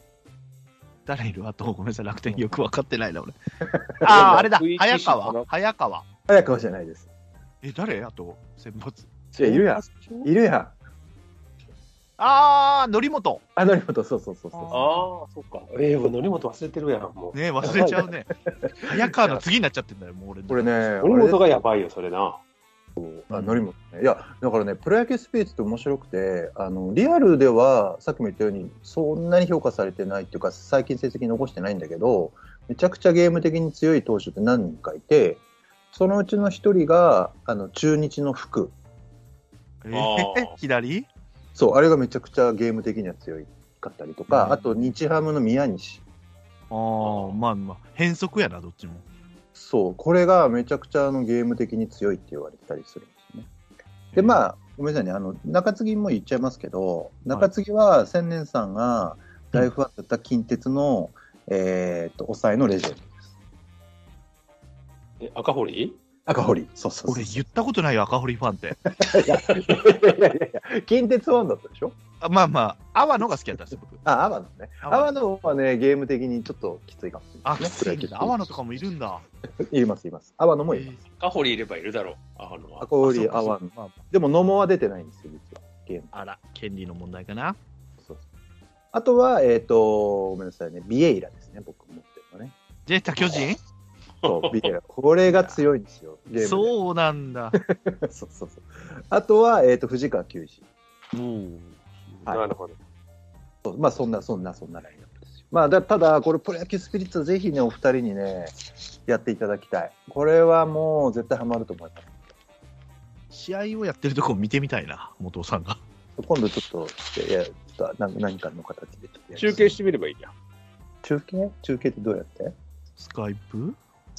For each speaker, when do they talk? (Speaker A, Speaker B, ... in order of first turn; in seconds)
Speaker A: 1.1-3.4, 4.0-6.0, 7.6-10.3, 12.2-13.4, 14.5-15.1, 17.3-18.3, 18.8-20.7, 23.3-23.6, 39.8-41.1, 44.3-44.6, 46.7-49.0, 54.1-54.4, 67.1-68.8, 72.2-74.0, 74.8-75.1, 77.5-79.2, 80.7-81.0, 83.0-84.0, 86.1-87.6, 92.9-93.6, 95.3-95.6, 96.4-97.6, 101.1-102.3, 113.3-115.8, 123.0-123.8
Speaker B: 3.6-4.5, 6.3-7.1, 9.3-10.7, 13.6-14.9, 17.6-18.0, 18.6-18.9, 20.5-21.4, 23.0-35.4, 35.9-38.8, 41.5-46.0, 49.5-53.5, 54.1-63.3, 66.3-67.5, 68.8-72.0, 74.0-78.5, 79.6-81.0, 82.8-86.1, 88.9-92.5, 94.2-96.8, 97.6-100.6, 103.7-108.6, 109.1-112.1, 116.2-119.8, 121.0-122.5
Speaker C: 4.0-5.5, 14.7-18.0, 21.0-22.4, 39.9-40.5, 47.0-47.4, 65.2-66.0, 81.2-82.9, 94.2-94.7, 102.3-102.8, 119.4-120.3